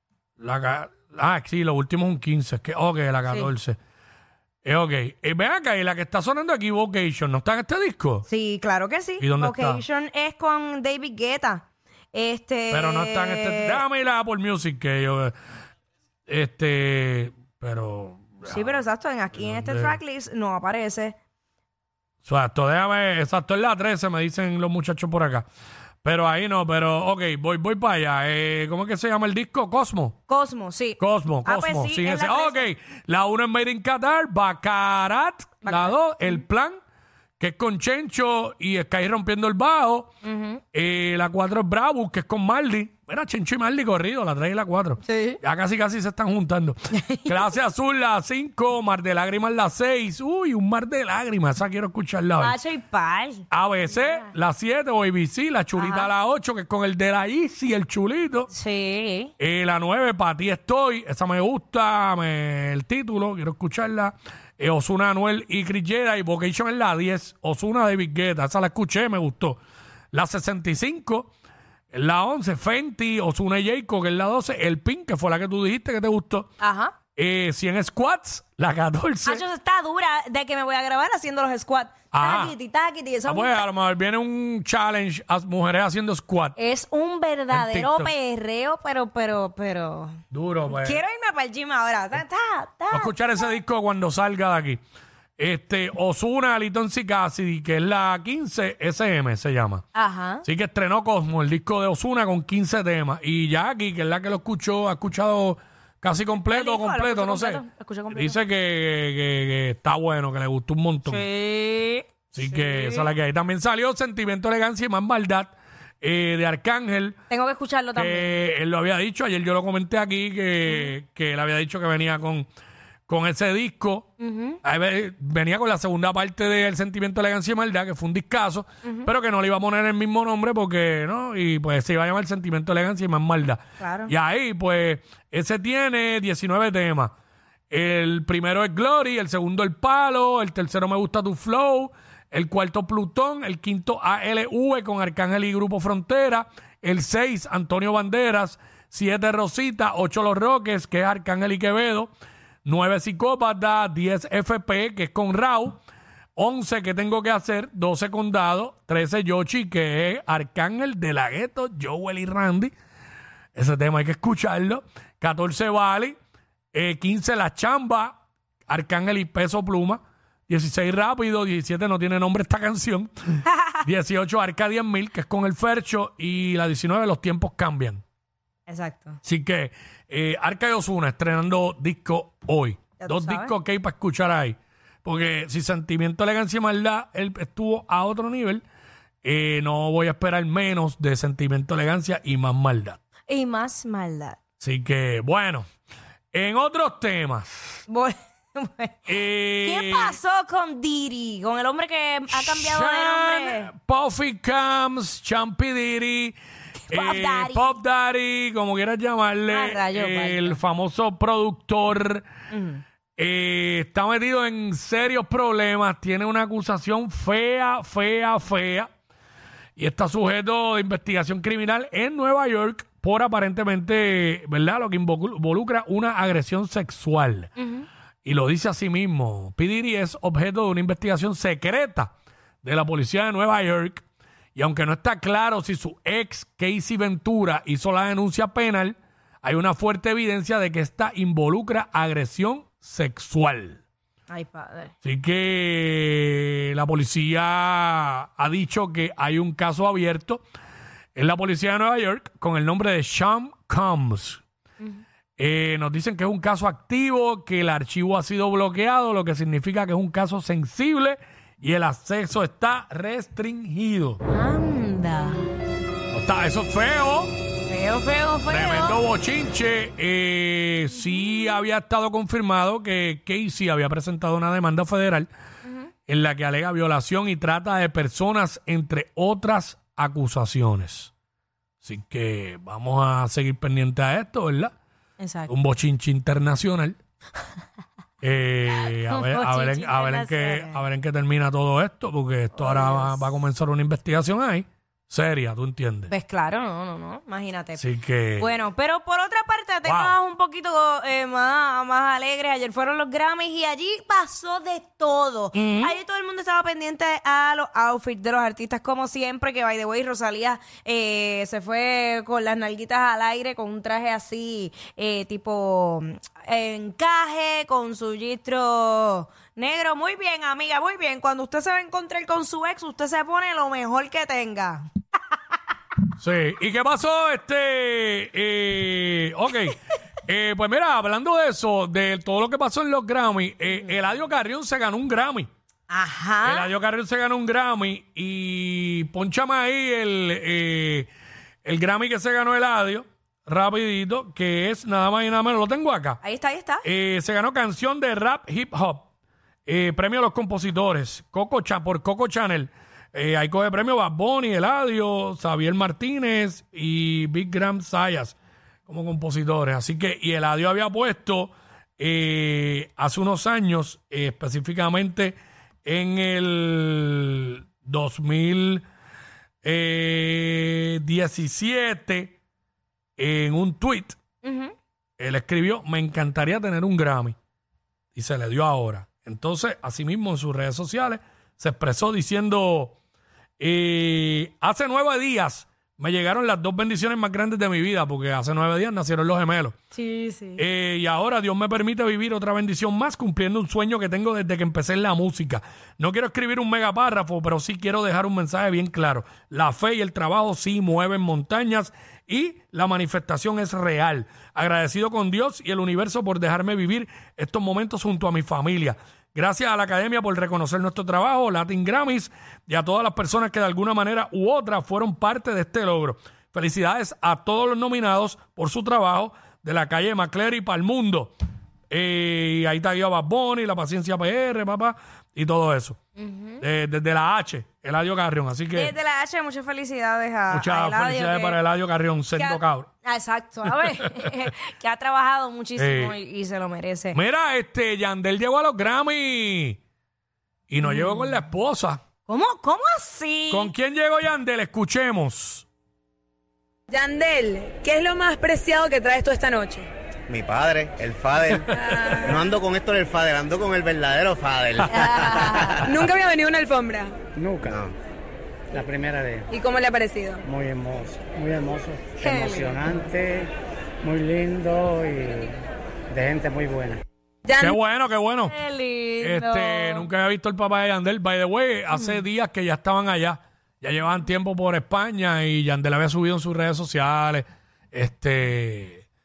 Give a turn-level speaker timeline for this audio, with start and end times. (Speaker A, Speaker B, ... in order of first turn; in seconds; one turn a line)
Speaker A: 0.4-3.8
Speaker A: 4.7-8.3
Speaker B: 8.3-13.8
Speaker A: 9.2-9.8
Speaker A: 12.7-15.3
Speaker A: 16.3-18.8
Speaker B: 18.4-21.2
Speaker A: 19.4-20.0
Speaker A: 22.2-25.5
Speaker A: 26.0-30.2
Speaker B: 30.3-32.7
Speaker A: 31.0-36.8
Speaker B: 35.6-36.4
Speaker A: 37.4-40.1
Speaker B: 40.2-40.6
Speaker A: 40.7-52.6
Speaker B: 45.0-45.4
Speaker B: 46.9-47.5
Speaker B: 52.4-54.3
Speaker A: 53.5-58.5
Speaker B: 55.8-56.1
Speaker B: 58.5-59.3
Speaker A: 59.4-69.6
Speaker A: 70.1-71.3
Speaker A: 71.9-76.5
Speaker B: 76.6-77.0
Speaker A: 77.2-79.5
Speaker B: 79.2-83.7
Speaker A: 82.1-82.6
Speaker A: 83.2-86.6
Speaker B: 86.6-90.2
Speaker A: 87.5-88.1
Speaker A: 90.3-91.0
Speaker B: 90.7-93.6
Speaker A: 92.9-94.8
Speaker A: 95.4-99.9
Speaker B: 100.0-100.5
Speaker A: 100.4-111.2
Speaker B: 106.5-108.4
Speaker B: 111.1-113.1
Speaker A: 112.3-117.2
Speaker B: 117.3-118.4
Speaker A: 118.0-122.5
Speaker B: 120.7-120.9
Speaker A: 123.1-124.1
Speaker B: 124.2-124.6
Speaker A: 124.6-137.1
Speaker B: 128.8-129.1
Speaker B: 133.8-134.1
Speaker A: 137.7-152.1
Speaker A: 152.7-155.8
Speaker A: 156.4-162.7
Speaker A: 163.6-166.2
Speaker A: 166.7-178.0
Speaker B: 178.7-179.2
Speaker A: 179.2-188.6
Speaker B: 183.0-183.5
Speaker A: 189.2-193.0
Speaker B: 193.3-194.4
Speaker A: 194.6-195.7
Speaker A: 196.3-197.8
Speaker B: 197.9-199.1
Speaker A: 199.1-200.2
Speaker B: 199.6-203.7
Speaker A: 202.3-206.4
Speaker B: 206.9-207.7
Speaker A: 206.9-212.3
Speaker B: 209.5-210.6
Speaker B: 212.5-212.8
Speaker A: 213.2-218.9
Speaker A: 219.8-227.5
Speaker B: 227.6-227.9
Speaker A: 228.2-232.1
Speaker A: 232.6-234.0
Speaker A: 234.6-243.8
Speaker B: 244.3-244.9
Speaker A: 245.0-250.4
Speaker A: 251.2-254.4
Speaker A: 255.4-264.2
Speaker B: 264.3-265.5
Speaker A: 266.1-267.3
Speaker B: 267.7-269.0
Speaker A: 268.5-275.3
Speaker B: 271.0-271.5
Speaker B: 275.7-275.9
Speaker A: 276.1-281.1
Speaker A: 281.8-284.7
Speaker B: 285.2-285.5
Speaker A: 285.5-287.0
Speaker A: 288.2-296.1
Speaker B: 288.7-290.8
Speaker B: 292.5-293.2
Speaker B: 296.1-297.8
Speaker A: 297.8-298.6
Speaker B: 298.4-324.9
Speaker A: 299.9-300.2
Speaker A: 305.5-306.0
Speaker A: 326.2-335.5
Speaker B: 335.9-336.7
Speaker A: 336.4-341.1
Speaker A: 341.6-346.2
Speaker B: 346.2-346.9
Speaker A: 346.8-349.1
Speaker A: 349.7-358.4
Speaker A: 358.9-368.8
Speaker A: 369.6-372.4
Speaker A: 373.2-374.2
Speaker B: 374.4-374.7
Speaker A: 375.2-377.4
Speaker A: 378.1-383.0
Speaker A: 383.6-389.8
Speaker B: 389.9-390.6
Speaker A: 390.6-421.4
Speaker A: 421.9-426.0
Speaker B: 426.2-426.6
Speaker A: 426.6-428.9
Speaker B: 428.7-431.6
Speaker A: 430.5-432.9
Speaker B: 432.4-437.2
Speaker A: 433.8-434.3
Speaker A: 435.8-436.2
Speaker A: 437.1-439.8
Speaker A: 440.7-442.0
Speaker B: 440.8-441.3
Speaker B: 442.3-443.7
Speaker A: 443.5-445.7
Speaker C: 446.9-449.9
Speaker D: 450.3-456.1
Speaker A: 451.7-452.4
Speaker B: 454.9-455.9
Speaker C: 455.9-457.2
Speaker E: 457.4-457.8
Speaker D: 457.7-457.9
Speaker E: 458.7-459.5
Speaker C: 459.5-460.4
Speaker E: 460.4-463.5
Speaker B: 462.2-462.9
Speaker E: 464.0-465.6
Speaker E: 466.1-467.0
Speaker C: 467.5-467.7
Speaker A: 467.5-468.6
Speaker B: 468.5-470.1
Speaker A: 469.2-479.1
Speaker B: 471.9-472.2